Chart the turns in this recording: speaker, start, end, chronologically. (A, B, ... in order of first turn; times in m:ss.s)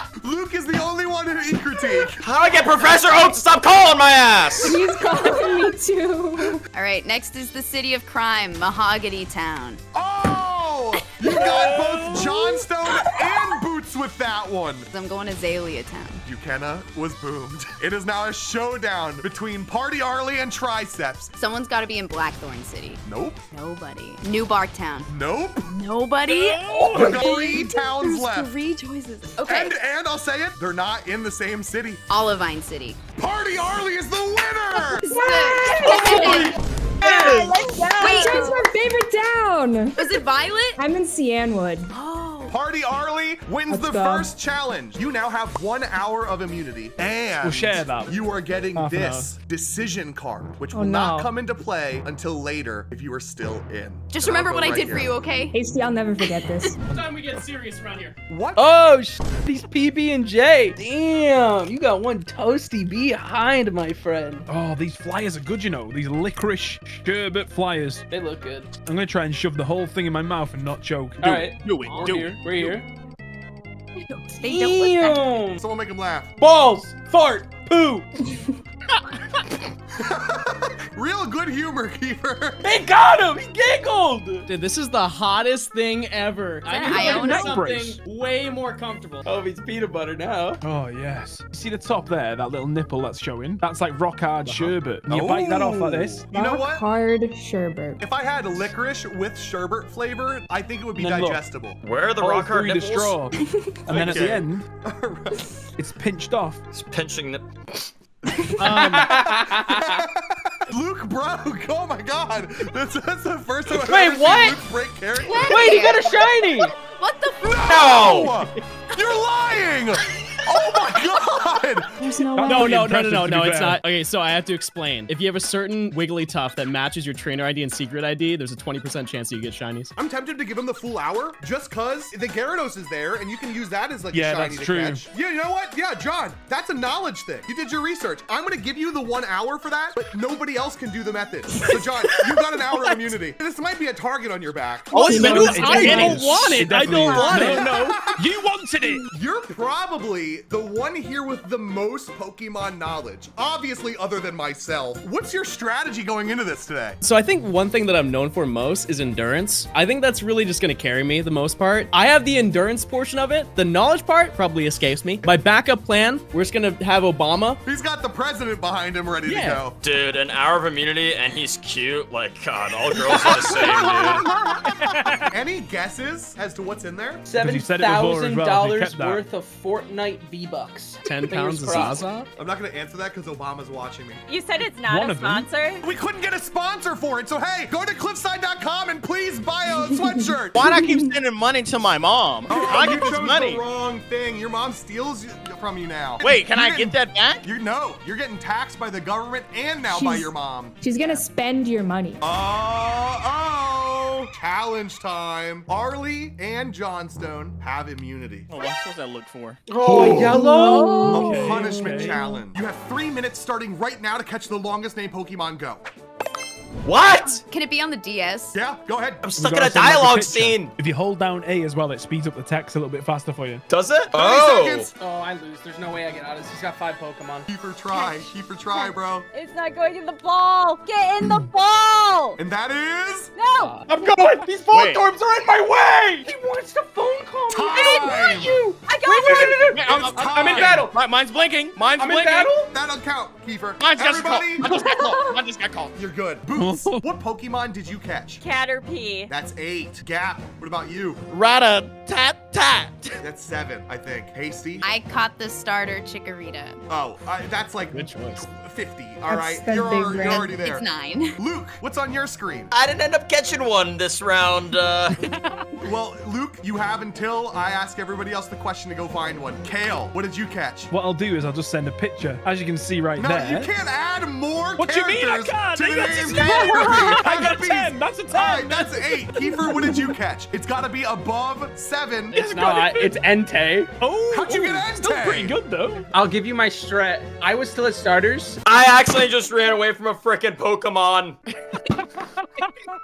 0:00.2-0:02.3 A
0:02.2-0:04.8 B
0:04.6-0:06.6 C
0:06.7-0:09.8 D
0:09.9-0:14.9 A
0:11.3-0:11.7 D
0:11.7-0:12.2 E
0:14.9-0:16.2 D
0:16.2-0:21.3 A
0:21.4-0:25.1 D
0:23.0-0:23.4 A
0:25.1-0:25.8 A
0:25.6-0:29.8 D
0:26.3-0:27.0 E
0:26.7-0:27.2 F
0:26.9-0:28.6 A
0:29.4-0:32.0 A
0:32.1-0:33.0 D
0:33.2-0:35.1 A
0:34.8-0:38.7 D
0:35.0-0:41.9 C
0:35.8-0:37.5 B
0:37.8-0:38.4 G
0:40.0-0:40.8 D
0:41.9-0:42.6 D
0:42.5-0:55.1 A
0:43.7-0:44.3 C
0:47.4-0:48.2 E
0:48.8-0:49.3 H
0:50.7-0:51.3 C
0:54.1-0:55.6 D
0:55.5-0:56.8 C
0:56.9-1:04.5 F
0:57.0-0:58.1 H
0:58.3-0:58.7 A
1:04.5-1:08.1 E
1:08.1-1:08.7 F
1:08.8-1:11.4 E
1:11.2-1:12.9 F
1:11.2-1:12.8 I
1:14.0-1:15.3 D
1:14.4-1:15.6 F
1:15.5-1:16.3 A
1:16.4-1:18.1 F
1:20.0-1:22.7 A
1:22.6-1:24.5 F
1:24.5-1:29.2 H
1:26.6-1:27.6 D
1:27.1-1:28.0 E
1:29.2-1:30.6 B
1:30.6-1:36.3 E
1:34.6-1:36.8 A
1:36.3-1:38.0 C
1:38.0-1:41.8 A
1:41.0-1:41.4 E
1:41.8-1:43.2 B
1:42.2-1:44.7 E
1:43.9-1:45.6 A
1:44.0-1:44.3 B
1:45.8-1:46.6 E
1:46.7-1:47.9 B
1:48.6-1:49.2 H
1:48.6-1:50.0 F
1:48.7-1:49.1 E
1:49.6-1:55.7 A
1:53.7-1:54.6 F
1:55.2-1:58.1 D
1:55.3-1:56.7 F
1:57.4-2:02.0 A
1:57.7-1:58.3 B
2:02.0-2:02.8 C
2:02.4-2:03.8 E
2:02.4-2:09.9 H
2:10.0-2:28.4 A
2:14.1-2:15.1 E
2:24.9-2:27.6 F
2:25.0-2:26.6 I
2:25.0-2:29.1 E
2:29.1-2:37.0 A
2:37.0-2:47.6 H
2:47.6-2:49.8 A
2:49.3-2:49.6 H
2:49.8-2:54.3 B
2:53.1-2:57.2 A
2:54.8-2:55.3 E
2:57.2-3:02.1 F
2:57.4-2:59.2 E
3:01.0-3:02.3 H
3:01.8-3:04.2 A
3:04.3-3:05.8 G
3:04.9-3:05.5 E
3:05.8-3:10.7 A
3:10.5-3:13.6 I
3:12.5-3:21.2 A
3:16.2-3:17.4 I
3:19.9-3:22.2 C
3:22.2-3:28.6 A
3:28.5-3:29.6 I
3:29.7-3:31.2 F
3:29.9-3:30.4 B
3:30.0-3:30.2 A
3:30.0-3:32.4 C
3:30.8-3:32.2 E
3:31.1-3:35.8 A
3:36.8-3:37.4 B
3:37.4-3:38.6 D
3:38.5-3:39.2 A
3:39.2-3:40.7 B
3:39.4-3:43.6 E
3:43.7-3:44.9 B
3:44.1-3:44.9 A
3:45.0-3:47.5 F
3:47.5-3:49.3 A
3:47.9-3:52.4 G
3:52.4-3:53.3 A
3:53.4-3:53.8 G
3:53.6-4:01.0 F
3:53.8-3:56.3 I
3:57.5-3:58.6 A
3:57.7-4:00.0 G
3:59.1-4:02.5 I
3:59.8-4:00.8 A
4:01.9-4:02.7 F
4:02.7-4:04.7 A
4:03.8-4:05.9 I
4:05.9-4:08.4 A
4:06.6-4:07.0 E
4:08.4-4:09.3 G
4:09.3-4:11.2 A
4:11.3-4:13.2 I
4:13.2-4:14.9 A
4:14.8-4:16.8 D
4:16.9-4:22.7 A
4:17.9-4:18.5 H
4:19.3-4:20.6 C
4:20.2-4:21.4 D
4:22.7-4:25.2 B
4:25.8-4:30.9 A
4:30.9-4:33.7 E
4:33.2-4:42.7 A
4:34.8-4:40.0 E
4:42.3-4:43.9 F
4:44.0-4:46.1 E
4:44.3-4:45.6 A
4:46.1-4:48.6 F
4:48.6-4:51.4 B